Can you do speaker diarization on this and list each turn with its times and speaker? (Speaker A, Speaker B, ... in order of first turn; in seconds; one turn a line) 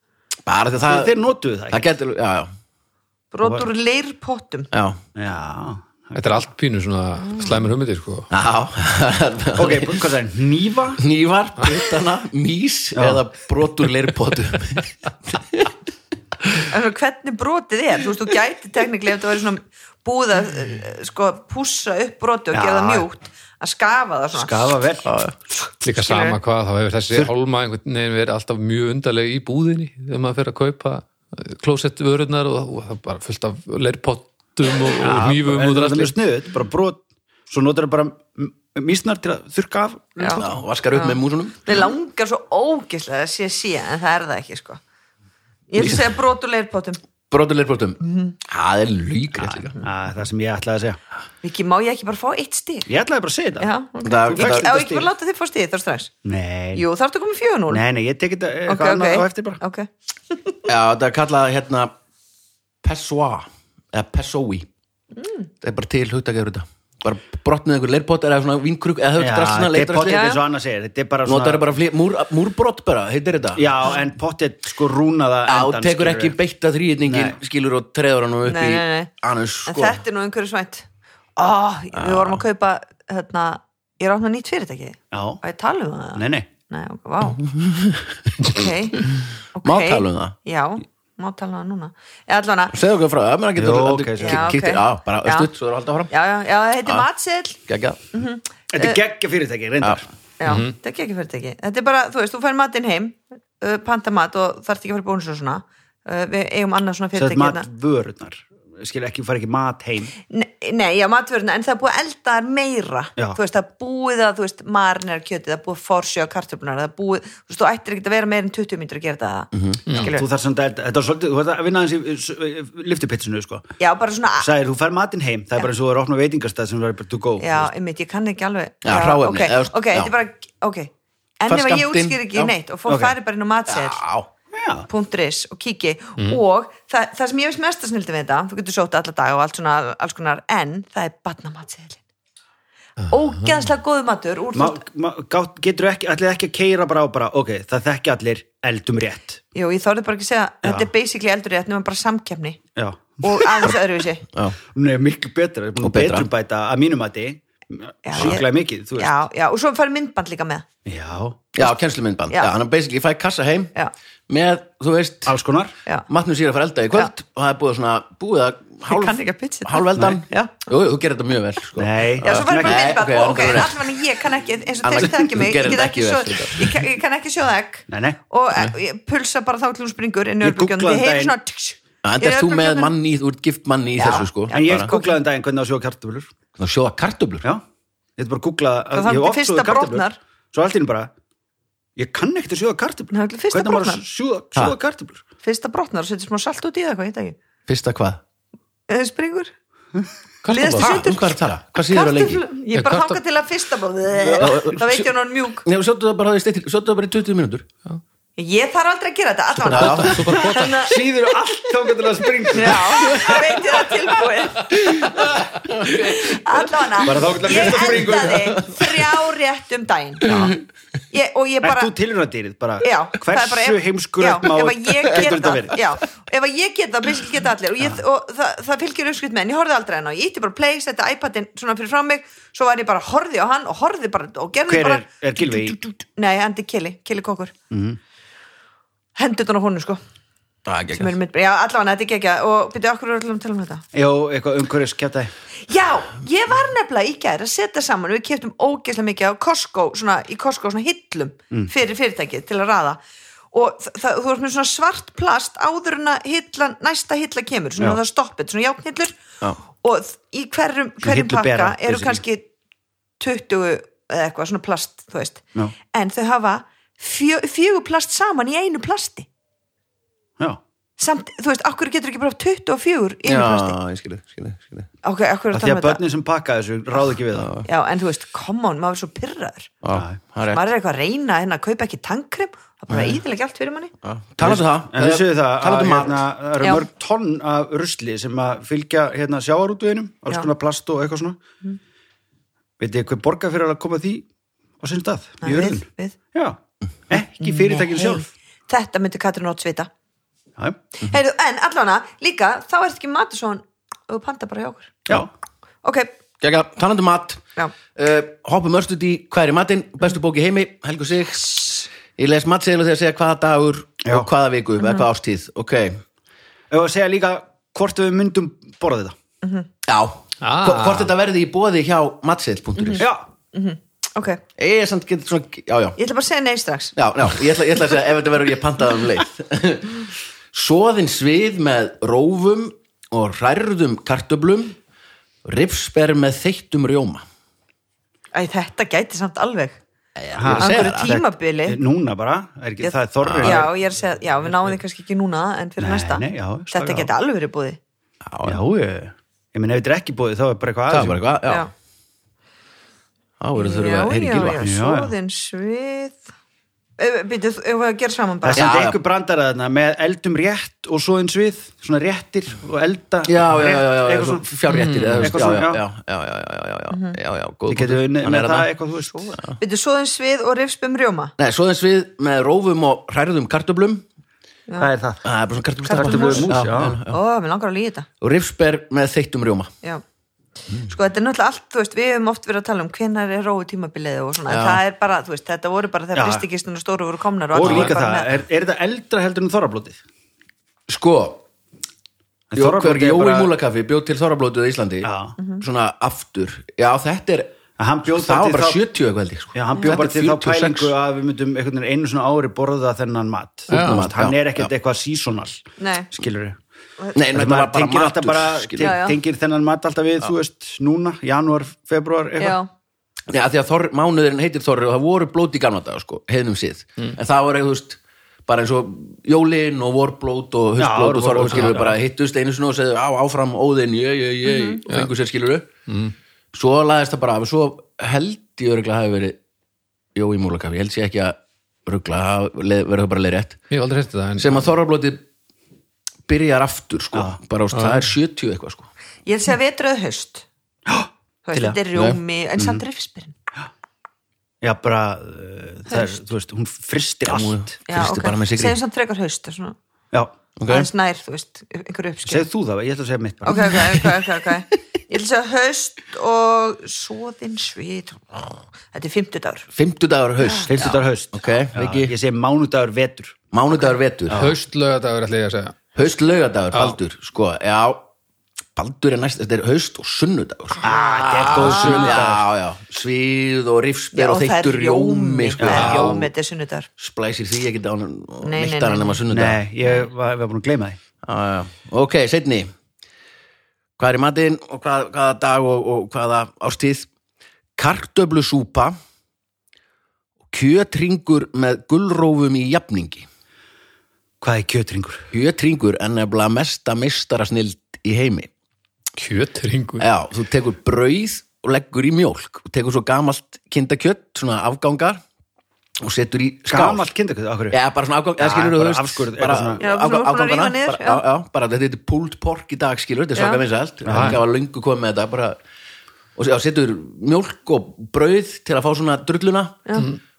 Speaker A: 0.5-2.5
Speaker B: 0.8-1.9
Speaker C: 3.3-4.7
Speaker A: 4.7-5.0
Speaker B: 5.2-6.2
Speaker D: 6.2-8.3
Speaker C: 7.3-7.5
Speaker A: 8.3-10.1
Speaker B: 9.6-11.0
Speaker A: 11.0-15.7
Speaker B: 12.9-13.2
Speaker C: 16.7-24.8
Speaker B: 22.5-23.1
Speaker B: 24.3-25.1
Speaker A: 25.1-25.4
Speaker D: 25.8-36.2
Speaker C: 25.9-26.4
Speaker B: 35.0-40.6
Speaker C: 40.2-44.8
Speaker A: 40.4-41.7
Speaker C: 45.7-47.0
Speaker A: 45.8-46.1
Speaker A: 47.3-49.8
Speaker C: 48.0-48.4
Speaker B: 49.8-51.0
Speaker C: 51.4-52.9
Speaker B: 52.9-53.7
Speaker C: 53.6-56.1
Speaker A: 54.0-54.8
Speaker B: 54.3-55.1
Speaker B: 56.2-56.9
Speaker C: 56.7-57.8
Speaker B: 57.7-59.6
Speaker C: 58.7-60.6
Speaker A: 60.7-61.9
Speaker A: 62.8-64.7
Speaker C: 65.2-65.5
Speaker A: 65.6-70.3
Speaker B: 69.2-71.6
Speaker C: 70.1-70.4
Speaker A: 71.2-73.8
Speaker B: 73.6-76.3
Speaker A: 75.5-80.0
Speaker B: 77.1-77.4
Speaker C: 78.4-79.1
Speaker C: 79.7-80.9
Speaker C: 81.4-87.4
Speaker A: 81.9-82.4
Speaker B: 85.1-85.4
Speaker B: 86.2-86.5
Speaker A: 87.4-90.3
Speaker C: 88.4-92.8
Speaker A: 92.7-96.1
Speaker B: 93.6-94.5
Speaker C: 94.2-95.5
Speaker C: 96.1-97.6
Speaker A: 97.7-98.0
Speaker C: 98.1-99.0
Speaker B: 98.7-100.1
Speaker C: 100.4-107.7
Speaker D: 100.5-100.7
Speaker B: 107.2-110.1
Speaker C: 110.3-120.3
Speaker A: 119.5-119.8
Speaker D: 119.9-120.1
Speaker B: 120.1-123.7
Speaker C: 123.8-124.5
Speaker B: 124.4-127.7
Speaker C: 127.4-134.0
Speaker A: 128.8-130.1
Speaker A: 131.5-132.5
Speaker B: 132.9-133.2
Speaker A: 133.7-134.3
Speaker B: 134.5-134.9
Speaker C: 134.9-142.0
Speaker C: 143.1-144.8
Speaker B: 144.5-149.4
Speaker C: 149.5-152.6
Speaker B: 150.6-150.9
Speaker B: 152.8-153.7
Speaker C: 153.2-154.2
Speaker A: 154.3-154.6
Speaker B: 154.7-159.2
Speaker A: 155.8-156.3
Speaker C: 158.1-160.7
Speaker A: 158.2-158.4
Speaker B: 160.8-161.4
Speaker A: 161.6-163.7
Speaker A: 164.3-165.3
Speaker B: 165.3-165.7
Speaker A: 166.1-173.9
Speaker C: 168.9-170.6
Speaker B: 169.9-170.2
Speaker B: 171.8-173.0
Speaker C: 172.2-182.9
Speaker A: 174.8-176.8
Speaker B: 177.9-178.2
Speaker B: 180.4-181.3
Speaker A: 182.0-184.9
Speaker C: 184.0-185.2
Speaker B: 184.5-186.3
Speaker A: 186.6-187.5
Speaker B: 188.2-191.1
Speaker C: 188.9-190.2
Speaker B: 192.0-195.2
Speaker C: 193.1-194.0
Speaker C: 195.4-197.4
Speaker A: 197.7-198.2
Speaker C: 198.9-199.5
Speaker A: 200.4-202.4
Speaker C: 200.5-205.7
Speaker D: 202.7-203.2
Speaker B: 204.2-204.7
Speaker A: 204.3-205.1
Speaker A: 205.6-207.7
Speaker C: 208.4-211.0
Speaker A: 209.6-210.5
Speaker D: 209.7-210.9
Speaker B: 210.8-213.7
Speaker C: 212.5-220.6
Speaker A: 212.7-213.5
Speaker A: 214.7-219.0
Speaker B: 217.0-218.6
Speaker A: 220.3-220.5
Speaker C: 221.1-221.9
Speaker B: 221.6-225.8
Speaker C: 222.8-237.5
Speaker B: 234.7-235.8
Speaker B: 237.7-238.0
Speaker C: 239.2-240.0
Speaker A: 240.7-241.1
Speaker C: 240.9-243.8
Speaker B: 243.9-245.3
Speaker C: 245.7-253.0
Speaker C: 253.5-259.2
Speaker C: 259.7-262.5
Speaker B: 261.0-262.2
Speaker C: 263.2-269.3
Speaker C: 271.0-273.8
Speaker A: 273.2-274.9
Speaker C: 275.0-276.0
Speaker B: 275.5-277.6
Speaker A: 277.3-277.7
Speaker C: 277.6-279.7
Speaker A: 279.8-280.6
Speaker B: 279.9-280.2
Speaker C: 280.5-283.9
Speaker A: 284.0-286.3
Speaker B: 284.4-291.4
Speaker C: 286.6-286.9
Speaker B: 292.8-294.3
Speaker B: 294.8-296.6
Speaker C: 295.4-296.2
Speaker B: 297.1-298.3
Speaker C: 297.4-299.9
Speaker C: 301.0-305.0
Speaker C: 305.8-306.1
Speaker A: 306.4-307.4
Speaker A: 307.9-316.0
Speaker C: 314.8-315.1
Speaker B: 316.7-319.1
Speaker C: 319.4-319.7
Speaker A: 319.8-323.1
Speaker D: 320.4-321.1
Speaker C: 322.8-324.4
Speaker B: 323.0-323.3
Speaker A: 324.6-326.0
Speaker C: 326.0-327.0
Speaker A: 327.0-334.8
Speaker A: 335.4-337.2
Speaker C: 338.3-339.8
Speaker A: 340.2-341.2
Speaker B: 340.4-340.9
Speaker C: 340.5-341.8
Speaker B: 341.7-343.7
Speaker C: 342.8-347.8
Speaker A: 343.2-343.7
Speaker B: 345.8-347.1
Speaker A: 348.2-348.6
Speaker B: 348.4-351.2
Speaker A: 350.9-351.7
Speaker A: 353.4-354.6
Speaker C: 353.6-356.2
Speaker B: 354.6-355.1
Speaker C: 357.0-358.7
Speaker B: 358.4-364.5
Speaker A: 358.6-359.0
Speaker A: 363.2-368.7
Speaker D: 364.7-365.4
Speaker B: 365.2-365.8
Speaker C: 366.9-367.2
Speaker B: 367.7-369.4
Speaker C: 369.1-371.3
Speaker A: 371.4-374.1
Speaker B: 374.8-375.3
Speaker A: 375.2-377.2
Speaker C: 375.8-378.1
Speaker B: 375.9-377.0
Speaker A: 378.2-379.7
Speaker C: 380.9-388.3
Speaker A: 384.5-384.8
Speaker B: 386.1-386.5
Speaker B: 387.5-390.0
Speaker A: 390.9-391.4
Speaker B: 392.5-393.5
Speaker A: 392.5-397.5
Speaker B: 395.0-395.4
Speaker C: 395.4-395.6
Speaker B: 397.8-398.8
Speaker A: 398.1-400.9
Speaker B: 399.5-406.6
Speaker D: 403.7-404.1
Speaker A: 403.7-404.7
Speaker C: 405.8-406.1
Speaker A: 407.1-409.0
Speaker B: 407.3-412.6
Speaker C: 408.8-409.2
Speaker C: 412.4-412.7
Speaker A: 413.3-425.7
Speaker B: 420.8-422.0
Speaker D: 421.5-421.8
Speaker C: 424.4-424.8
Speaker D: 425.9-426.1
Speaker A: 426.5-429.4
Speaker A: 430.1-433.6
Speaker D: 433.7-434.7
Speaker A: 434.4-435.2
Speaker A: 436.3-438.9
Speaker D: 437.7-438.1
Speaker C: 439.3-440.5
Speaker B: 440.9-441.8
Speaker C: 441.5-443.3
Speaker A: 441.9-442.2
Speaker B: 442.6-442.8
Speaker B: 444.6-447.8
Speaker C: 445.9-446.2
Speaker A: 447.3-448.8
Speaker C: 447.9-449.8
Speaker A: 450.6-450.9
Speaker C: 450.7-452.4
Speaker B: 452.3-454.0
Speaker C: 453.4-459.7
Speaker A: 453.6-453.9
Speaker A: 459.7-462.1
Speaker C: 460.4-460.7
Speaker B: 460.7-463.4
Speaker A: 463.5-464.5
Speaker B: 464.3-464.6
Speaker D: 464.3-465.8
Speaker A: 465.9-468.1
Speaker D: 466.7-467.0
Speaker A: 468.8-476.3
Speaker B: 470.8-472.4
Speaker C: 470.9-472.2
Speaker C: 474.1-476.9
Speaker B: 475.6-476.1
Speaker A: 477.0-479.6
Speaker C: 478.4-479.2
Speaker B: 479.3-481.0
Speaker C: 479.8-480.1
Speaker A: 481.2-482.7
Speaker A: 484.0-487.1
Speaker A: 487.8-489.0
Speaker A: 490.5-493.3
Speaker B: 494.4-495.3
Speaker A: 495.3-498.5
Speaker D: 499.2-500.1
Speaker A: 500.0-505.2
Speaker A: 506.0-507.1
Speaker B: 506.7-507.8
Speaker A: 507.7-515.6
Speaker B: 508.4-509.8
Speaker C: 509.8-511.2
Speaker C: 513.4-513.6
Speaker B: 514.0-514.4
Speaker D: 514.1-514.4
Speaker A: 516.4-520.0